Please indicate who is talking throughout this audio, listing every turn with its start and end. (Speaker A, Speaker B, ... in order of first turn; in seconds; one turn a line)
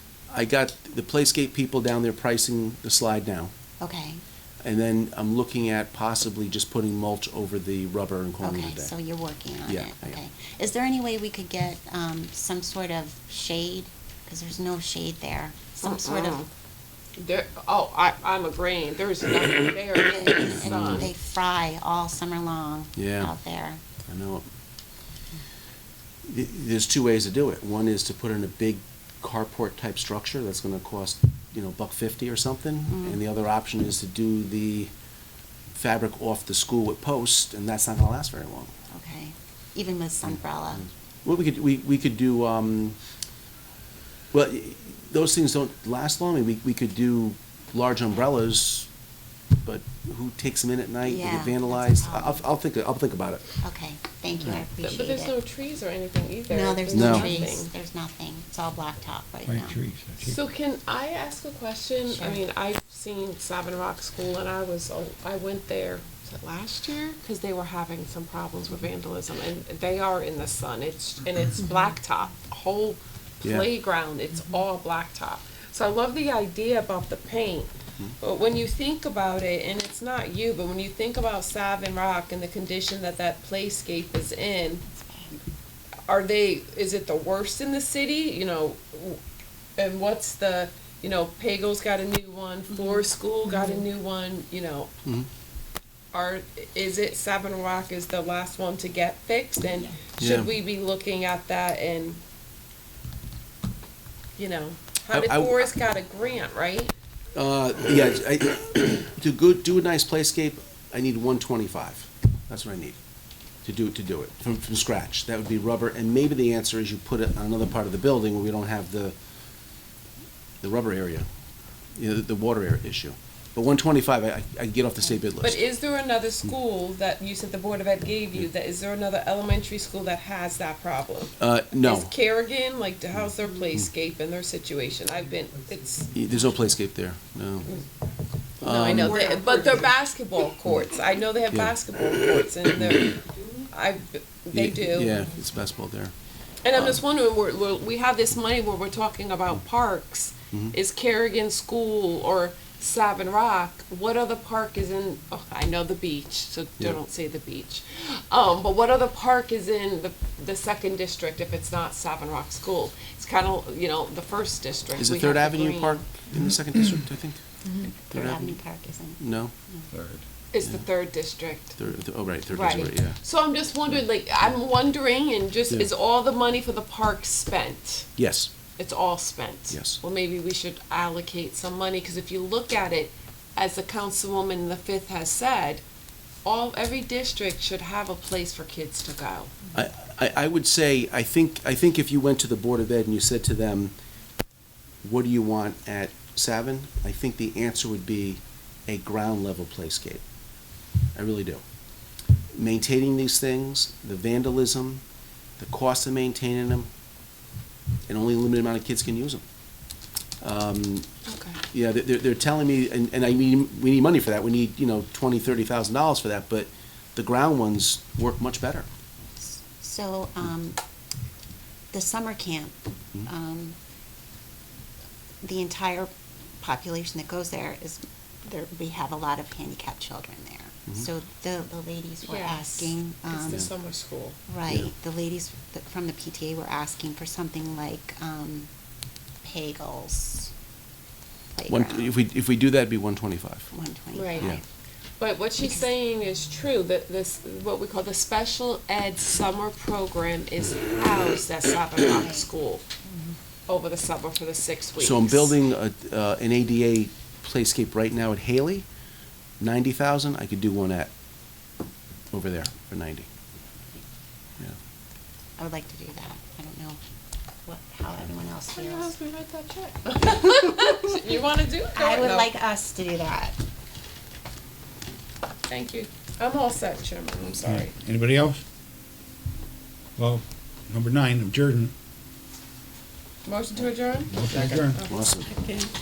Speaker A: 0.3-3.5
Speaker B: 3.8-4.2
Speaker A: 4.6-8.9
Speaker B: 8.4-16.4
Speaker A: 9.7-10.2
Speaker C: 15.8-16.5
Speaker C: 17.2-21.1
Speaker B: 20.0-23.8
Speaker A: 20.6-21.1
Speaker A: 23.0-23.3
Speaker A: 24.1-24.5
Speaker A: 26.2-34.9
Speaker B: 32.9-33.2
Speaker A: 35.7-38.7
Speaker B: 38.9-40.9
Speaker A: 41.2-43.0
Speaker A: 44.3-48.9
Speaker A: 49.6-53.5
Speaker B: 51.0-52.5
Speaker B: 53.6-55.4
Speaker C: 54.8-57.7
Speaker B: 56.5-59.8
Speaker A: 56.9-57.4
Speaker D: 59.6-60.4
Speaker C: 60.2-84.8
Speaker B: 62.1-62.4
Speaker B: 84.9-85.4
Speaker C: 86.0-89.2
Speaker C: 89.8-94.9
Speaker B: 92.8-93.0
Speaker C: 96.1-102.2
Speaker A: 100.2-100.5
Speaker C: 104.4-106.9
Speaker A: 105.1-105.7
Speaker A: 107.3-113.0
Speaker A: 113.6-119.2
Speaker A: 120.6-121.3
Speaker A: 122.0-125.6
Speaker C: 125.4-136.1
Speaker A: 131.4-132.1
Speaker A: 136.1-137.7
Speaker A: 138.6-139.4
Speaker C: 138.6-145.2
Speaker D: 139.2-139.9
Speaker A: 141.5-141.8
Speaker A: 142.8-143.1
Speaker A: 144.5-146.1
Speaker C: 146.6-166.0
Speaker A: 165.0-167.4
Speaker A: 168.1-168.6
Speaker B: 168.1-169.9
Speaker A: 169.2-169.5
Speaker D: 169.9-170.2
Speaker C: 170.5-171.8
Speaker A: 171.8-173.2
Speaker C: 172.5-178.1
Speaker A: 178.2-178.5
Speaker C: 178.8-185.8
Speaker A: 179.7-180.0
Speaker C: 186.4-189.6
Speaker A: 189.7-193.9
Speaker A: 195.0-200.2
Speaker A: 201.2-201.6
Speaker A: 202.5-205.0
Speaker A: 205.6-206.9
Speaker A: 208.1-209.4
Speaker A: 210.4-211.1
Speaker C: 211.3-211.6
Speaker A: 211.7-218.9
Speaker B: 219.4-220.8
Speaker B: 221.9-223.8
Speaker B: 225.4-233.7
Speaker C: 232.2-234.4
Speaker B: 234.5-238.7
Speaker B: 239.4-240.5
Speaker B: 241.6-242.1
Speaker A: 241.7-243.7
Speaker B: 243.7-244.6
Speaker C: 244.1-244.5
Speaker C: 245.2-252.9
Speaker B: 252.1-252.5
Speaker C: 253.7-255.6
Speaker A: 255.0-258.9
Speaker A: 259.6-261.1
Speaker A: 262.3-263.3
Speaker B: 265.6-267.0
Speaker B: 267.6-269.2
Speaker C: 268.9-272.5
Speaker B: 270.3-271.0
Speaker B: 271.9-273.6
Speaker C: 275.7-277.9
Speaker D: 277.6-278.6
Speaker D: 280.2-281.9
Speaker C: 283.4-285.2
Speaker D: 284.3-285.0
Speaker A: 285.1-285.5